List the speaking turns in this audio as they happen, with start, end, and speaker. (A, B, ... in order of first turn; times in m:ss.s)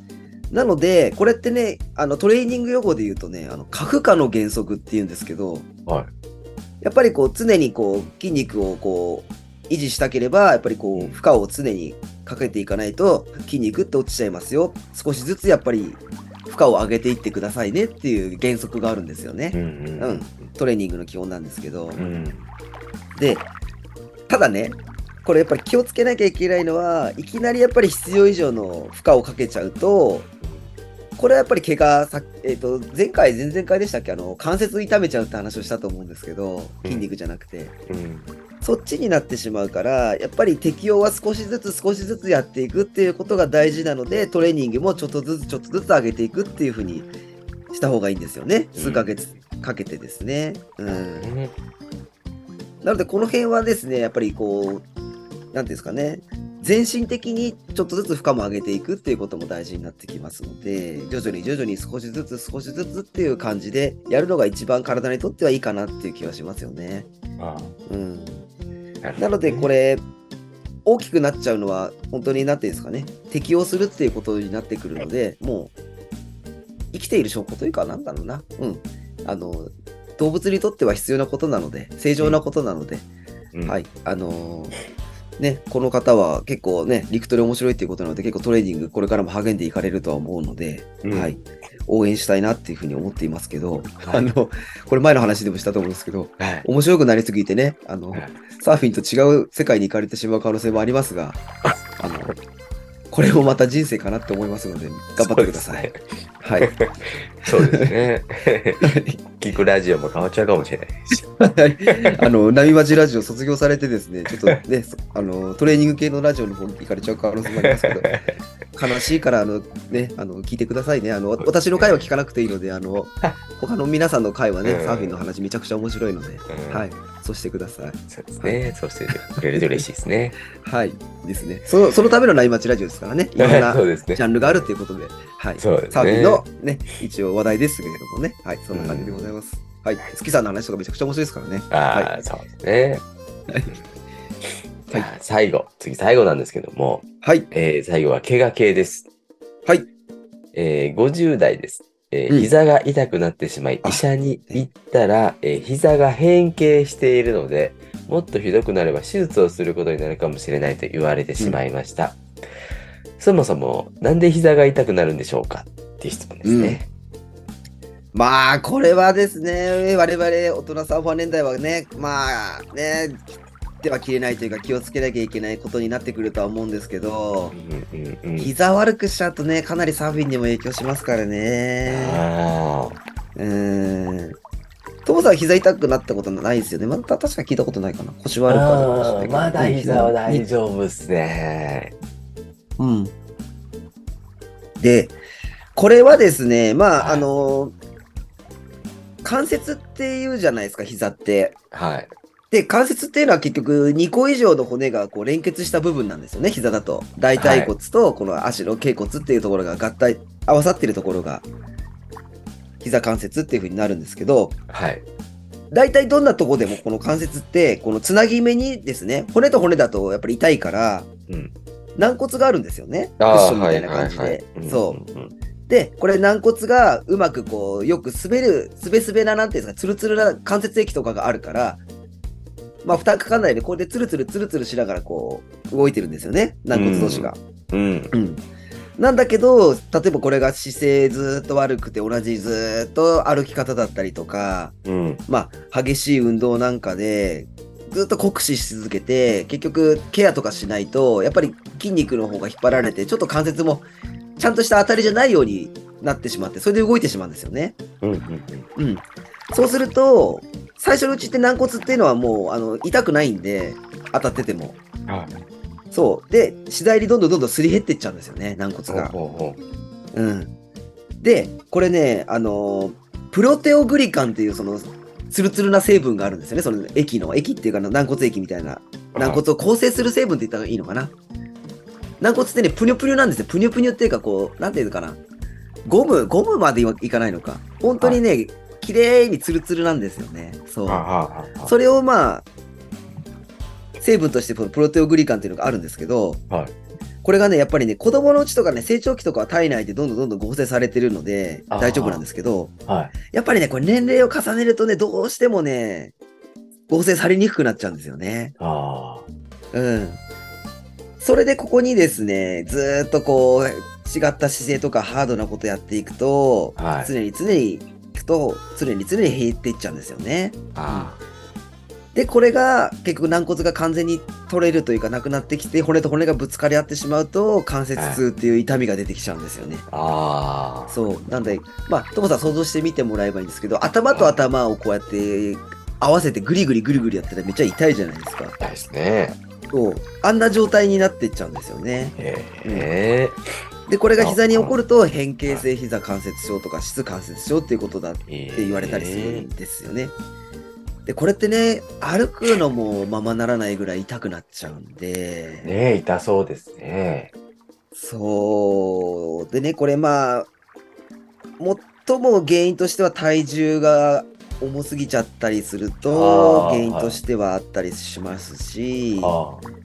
0:00.5-0:05.6 A
0:06.8-0:22.0 A
0:19.5-0:20.5 B
0:21.9-0:22.5 B
0:23.2-0:23.5 A
0:24.3-0:30.3 A
0:30.4-0:30.7 B
0:31.2-0:37.7 A
0:37.9-0:38.3 B
0:38.6-0:47.1 A
0:47.7-0:51.3 A
0:48.8-0:49.4 B
0:50.9-0:51.5 B
0:52.8-0:54.8 A
0:55.5-1:07.1 A
1:07.4-1:07.7 B
1:07.9-1:08.4 A
1:09.0-1:09.7 B
1:09.2-1:10.0 A
1:10.9-1:15.7 A
1:16.9-1:23.0 A
1:23.6-1:24.8 A
1:25.4-1:41.4 A
1:31.0-1:31.4 B
1:36.4-1:36.6 B
1:38.1-1:38.4 B
1:42.0-1:42.4 A
1:43.1-1:45.9 A
1:45.2-1:46.0 B
1:46.4-1:46.7 A
1:46.6-1:51.2 B
1:47.4-1:47.9 A
1:48.8-1:49.2 A
1:51.4-1:58.1 A
1:51.9-1:52.1 B
1:57.7-1:58.3 B
1:58.8-2:08.7 A
2:01.4-2:02.1 B
2:04.6-2:05.2 B
2:06.5-2:06.9 B
2:08.1-2:10.4 B
2:10.6-2:22.1 A
2:13.4-2:14.7 B
2:15.6-2:16.4 B
2:18.7-2:19.3 B
2:21.7-2:23.0 B
2:23.5-2:23.8 A
2:24.9-2:29.1 B
2:27.2-2:27.5 A
2:30.5-2:42.2 B
2:33.8-2:34.6 A
2:43.2-2:46.9 B
2:46.4-2:46.8 A
2:48.1-2:53.3 A
2:53.8-2:57.6 A
2:57.5-2:58.5 B
2:58.4-3:02.2 A
3:01.9-3:03.0 B
3:03.4-3:04.4 A
3:05.0-3:10.4 A
3:08.5-3:11.9 B
3:12.8-3:13.1 A
3:14.8-3:15.2 A
3:15.7-3:17.7 A
3:17.0-3:17.2 B
3:19.2-3:21.6 A
3:21.7-3:22.1 B
3:22.5-3:31.4 A
3:27.4-3:27.7 B
3:32.8-3:34.6 A
3:34.7-3:35.0 B
3:35.7-3:41.1 A
3:42.0-3:45.0 A
3:43.2-3:45.3 B
3:45.7-3:51.8 A
3:52.8-3:57.4 A
3:56.7-3:58.1 B
3:58.1-3:58.4 A
3:59.0-4:13.9 A
4:04.8-4:05.2 B
4:14.4-4:17.8 A
4:18.0-4:18.7 B
4:18.8-4:24.8 A
4:25.1-4:25.4 B
4:25.9-4:29.1 A
4:28.9-4:29.6 B
4:30.1-4:30.5 A
4:31.2-4:41.1 A
4:39.1-4:39.4 B
4:42.2-4:45.2 A
4:45.8-4:51.0 A
4:50.9-4:51.7 B
4:51.6-4:52.4 A
4:54.0-4:56.4 A
4:57.2-5:02.7 A
5:01.7-5:02.2 B
5:02.9-5:03.1 B
5:03.3-5:06.1 A
5:06.9-5:08.5 A
5:08.6-5:09.2 B
5:09.7-5:10.2 A
5:11.2-5:21.1 A
5:16.8-5:17.1 B
5:20.7-5:21.2 B
5:22.1-5:29.9 A
5:28.0-5:28.2 B
5:29.9-5:31.0 B
5:30.9-5:38.6 A
5:34.1-5:34.4 B
5:38.6-5:39.4 B
5:39.7-5:42.9 A
5:42.2-5:43.4 B
5:43.9-5:50.1 A
5:44.2-5:44.8 B
5:48.2-5:49.5 B
5:51.0-5:55.7 A
5:55.6-5:57.3 B
5:57.9-6:00.5 A
6:01.6-6:09.3 A
6:06.1-6:07.2 B
6:09.2-6:09.6 B